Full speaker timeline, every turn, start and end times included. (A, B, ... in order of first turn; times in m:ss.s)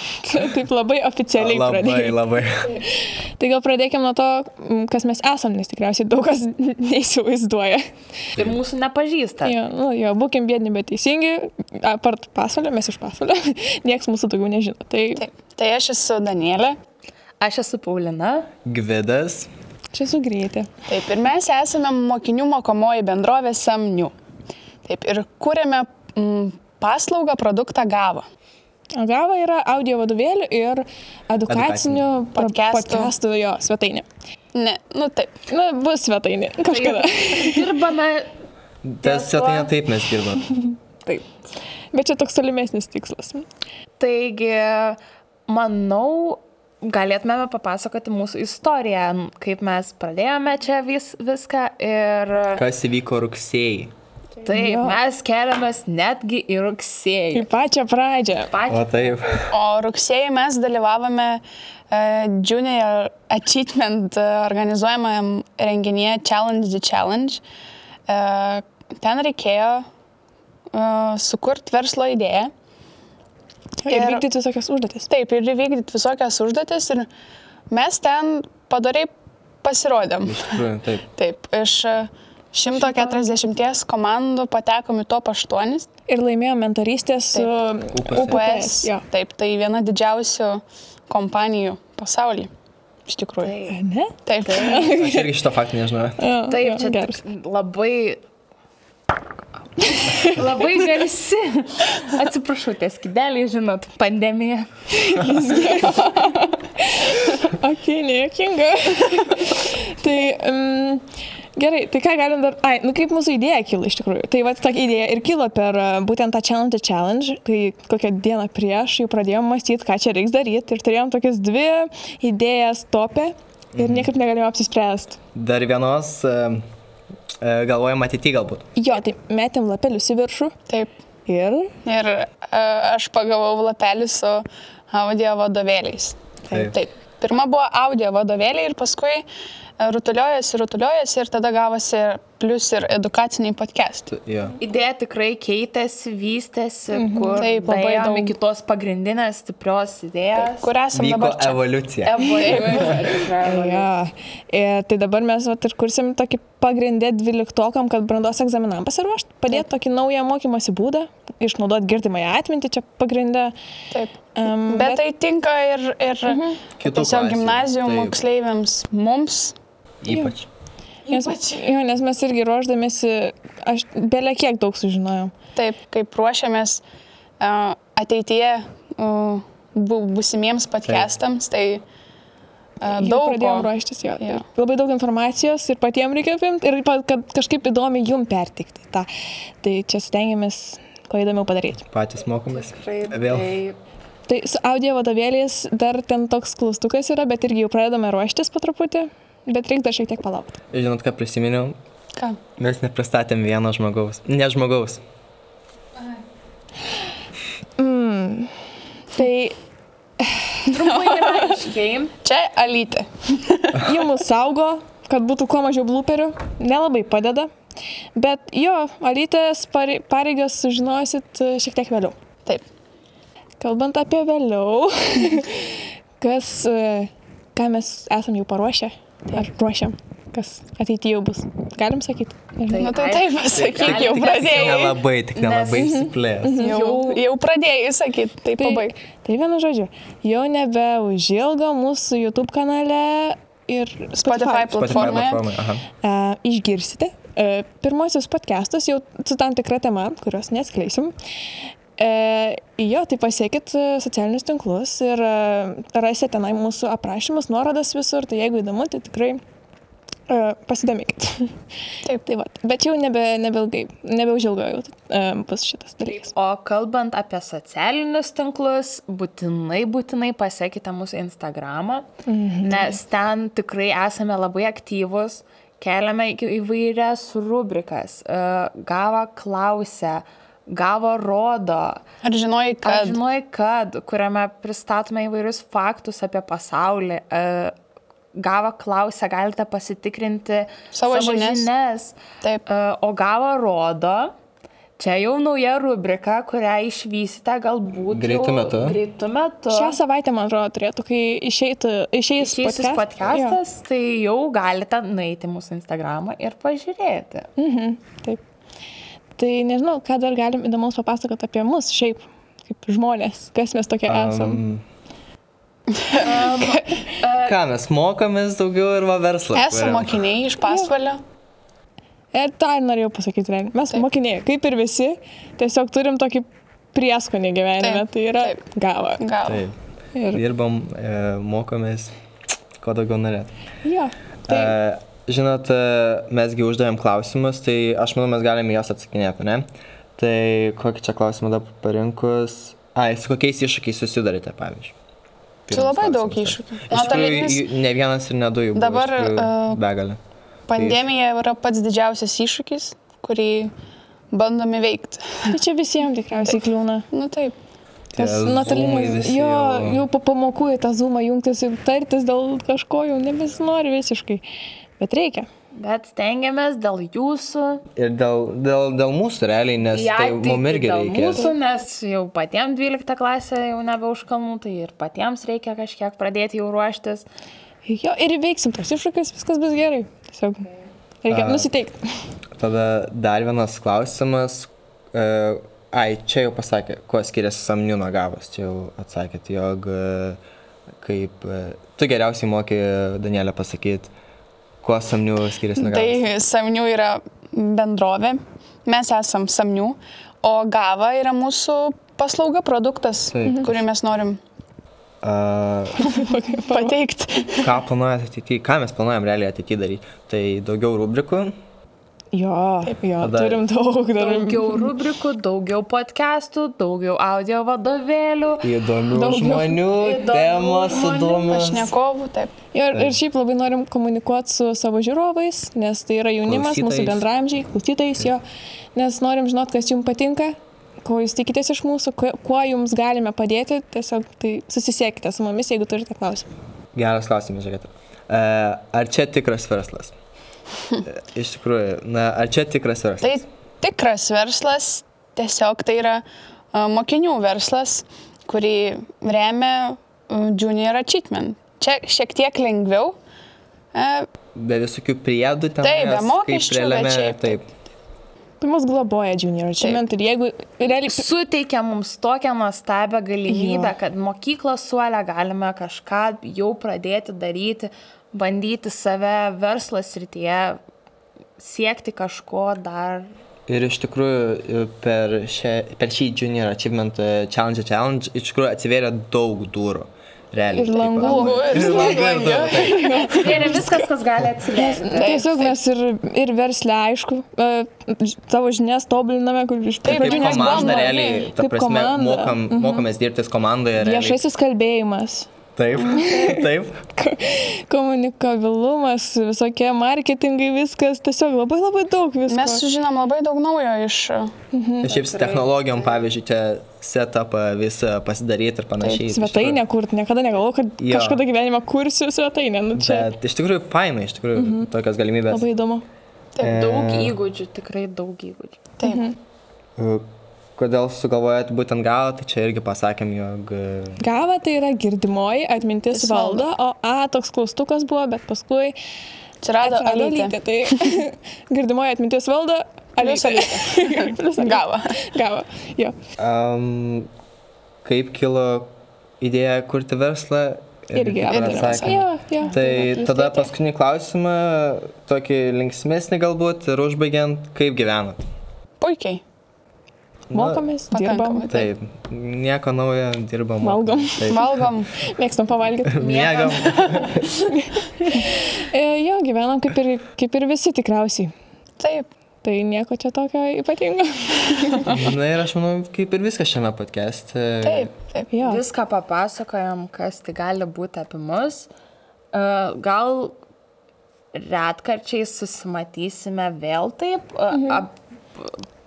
0:00.2-0:02.2 A
0:01.4-0:02.8 B
0:02.8-0:07.8 A
0:08.4-0:09.6 C
0:09.4-0:15.2 A
0:15.2-0:16.8 D
0:17.4-0:18.5 C
0:18.6-0:19.5 B
0:19.9-0:20.7 A
0:20.9-0:24.1 D
0:24.9-0:28.2 D
0:29.0-0:34.0 A
0:31.5-0:32.1 B
0:32.3-0:33.1 D
0:34.5-0:35.4 D
0:35.5-0:37.7 A
0:36.7-0:38.3 C
0:38.8-0:40.5 B
0:39.0-0:39.7 C
0:41.9-0:43.4 A
0:44.0-0:52.6 C
0:52.6-0:53.9 B
0:54.4-0:57.5 C
0:54.5-0:55.0 A
0:57.3-0:58.5 A
0:58.5-0:59.2 C
0:58.7-0:59.5 B
0:59.5-1:07.4 D
1:08.1-1:09.9 D
1:10.7-1:12.5 D
1:13.8-1:15.1 A
1:13.9-1:14.3 D
1:15.1-1:17.1 D
1:17.7-1:19.1 D
1:19.6-1:20.5 D
1:20.2-1:21.1 B
1:21.2-1:25.9 D
1:22.8-1:23.2 C
1:26.1-1:29.0 A
1:27.9-1:28.4 B
1:28.1-1:32.5 D
1:33.1-1:33.5 D
1:33.4-1:33.8 C
1:33.7-1:35.2 A
1:34.3-1:34.8 D
1:34.4-1:35.0 C
1:34.9-1:36.2 B
1:36.2-1:37.2 A
1:36.4-1:38.2 C
1:39.8-1:44.7 C
1:40.0-1:40.4 A
1:44.9-1:51.0 A
1:51.6-2:05.2 A
2:03.8-2:04.1 B
2:05.3-2:06.6 B
2:07.4-2:08.6 B
2:08.8-2:10.6 A
2:11.3-2:11.7 A
2:11.8-2:19.2 D
2:16.5-2:16.8 B
2:19.8-2:24.1 D
2:24.1-2:24.6 B
2:24.6-2:30.7 C
2:26.9-2:27.4 A
2:27.4-2:28.3 D
2:30.4-2:31.6 D
2:30.9-2:32.2 B
2:32.0-2:33.9 C
2:32.4-2:32.9 D
2:33.4-2:43.5 A
2:43.9-2:49.6 D
2:44.4-2:45.0 A
2:46.3-2:46.6 A
2:46.8-2:48.2 B
2:50.0-2:50.5 B
2:51.1-2:55.3 A
2:51.1-2:51.6 D
2:55.6-2:56.8 D
2:57.4-3:01.8 D
3:02.8-3:04.4 D
3:02.9-3:09.1 A
3:09.6-3:11.9 A
3:11.9-3:13.6 B
3:12.5-3:13.8 C
3:14.3-3:20.6 A
3:20.7-3:21.8 B
3:22.6-3:25.0 B
3:27.8-3:28.5 A
3:29.1-3:29.6 A
3:30.2-3:30.7 A
3:30.7-3:32.2 C
3:30.9-3:31.4 D
3:32.2-3:33.9 D
3:33.8-3:37.5 A
3:38.2-3:42.2 A
3:43.6-3:52.9 A
3:52.7-3:57.2 C
3:52.8-3:55.0 D
3:53.5-3:56.6 B
3:53.9-3:54.8 A
3:55.8-3:57.1 A
3:56.6-3:58.9 D
3:58.6-4:05.3 A
4:04.2-4:05.4 D
4:04.8-4:05.9 B
4:06.0-4:11.1 A
4:12.0-4:19.4 A
4:20.3-4:21.5 A
4:22.1-4:26.3 A
4:26.0-4:32.1 C
4:32.3-4:32.9 A
4:32.6-4:42.0 C
4:42.2-4:43.2 D
4:42.8-4:47.8 C
4:48.4-4:54.3 C
4:50.9-4:51.7 D
4:55.0-5:00.0 C
4:58.1-4:59.0 B
4:59.7-5:03.6 A
5:02.4-5:07.5 C
5:07.6-5:08.4 A
5:09.4-5:14.6 A
5:14.1-5:14.8 B
5:16.0-5:16.9 D
5:16.2-5:17.6 C
5:17.4-5:20.2 B
5:19.5-5:21.2 D
5:20.6-5:20.9 A
5:22.3-5:29.2 A
5:27.8-5:28.6 D
5:29.2-5:29.6 D
5:29.4-5:29.8 B
5:30.1-5:30.4 A
5:30.3-5:32.1 B
5:32.8-5:33.5 B
5:33.8-5:34.7 A
5:34.5-5:44.9 B
5:45.7-5:50.2 B
5:45.7-5:47.6 D
5:48.8-5:49.8 D
5:50.7-5:53.7 D
5:50.7-5:51.0 B
5:54.3-5:55.6 D
5:55.5-5:57.1 A
5:56.4-5:57.6 D
5:58.2-6:04.4 A
5:58.2-6:00.0 B
6:05.0-6:05.5 A
6:05.7-6:07.8 C
6:08.0-6:11.5 B
6:09.9-6:17.3 C
6:17.9-6:20.7 A
6:21.2-6:22.0 A
6:21.3-6:21.7 B
6:22.6-6:30.4 B
6:31.0-6:34.1 B
6:34.8-6:36.2 B
6:35.8-6:44.4 D
6:43.3-6:43.7 B
6:45.2-6:46.0 B
6:46.0-6:47.0 A
6:46.7-6:47.7 D
6:47.6-6:51.5 B
6:52.3-6:54.9 A
6:53.2-6:53.6 B
6:54.2-6:58.7 C
6:58.6-7:01.9 B
6:59.1-6:59.9 A
7:00.0-7:01.5 C
7:01.4-7:02.5 D
7:02.7-7:08.4 A
7:06.4-7:07.3 B
7:09.0-7:16.5 A
7:17.0-7:20.2 B
7:21.1-7:23.4 B
7:23.2-7:33.2 D
7:33.9-7:34.3 D
7:34.6-7:37.7 B
7:35.8-7:37.6 D
7:38.6-7:41.3 A
7:39.8-7:40.0 D
7:41.0-7:50.8 C
7:43.5-7:43.9 A
7:51.6-7:53.3 C
7:53.7-8:03.0 B
8:00.7-8:02.2 A
8:01.2-8:03.5 D
8:02.8-8:04.0 A
8:03.1-8:05.4 C
8:04.8-8:13.1 A
8:05.1-8:05.8 D
8:10.0-8:11.5 D
8:10.0-8:14.4 B
8:14.0-8:15.5 A
8:15.8-8:17.0 B
8:16.1-8:16.6 A
8:17.2-8:22.8 A
8:22.5-8:24.5 D
8:24.7-8:25.1 A
8:25.0-8:26.2 C
8:25.0-8:29.8 B
8:29.3-8:33.3 A
8:31.0-8:31.4 B
8:33.0-8:35.7 B
8:34.6-8:34.9 A
8:35.5-8:36.0 A
8:36.6-8:37.4 B
8:36.6-8:38.9 C
8:39.0-8:39.2 D
8:39.0-8:39.4 A
8:40.0-8:44.2 B
8:44.2-8:49.0 A
8:46.1-8:46.7 D
8:49.6-8:51.1 D
8:49.8-8:56.2 A
8:53.2-8:55.2 D
8:56.4-8:57.3 B
8:58.0-9:08.4 B
9:01.1-9:03.7 A
9:01.5-9:02.2 D
9:09.0-9:09.4 D
9:10.5-9:10.9 B
9:10.5-9:11.7 A
9:11.1-9:11.9 D
9:11.7-9:14.8 B
9:13.8-9:14.8 A
9:14.5-9:15.1 D
9:15.3-9:16.3 A
9:16.1-9:17.5 B
9:16.2-9:17.0 C
9:17.7-9:21.5 A
9:22.0-9:22.3 D
9:22.6-9:25.2 A
9:25.1-9:28.1 B
9:27.8-9:28.5 D
9:28.5-9:28.8 A
9:28.6-9:31.9 C
9:32.5-9:33.6 C
9:34.5-9:38.8 C
9:37.7-9:38.0 A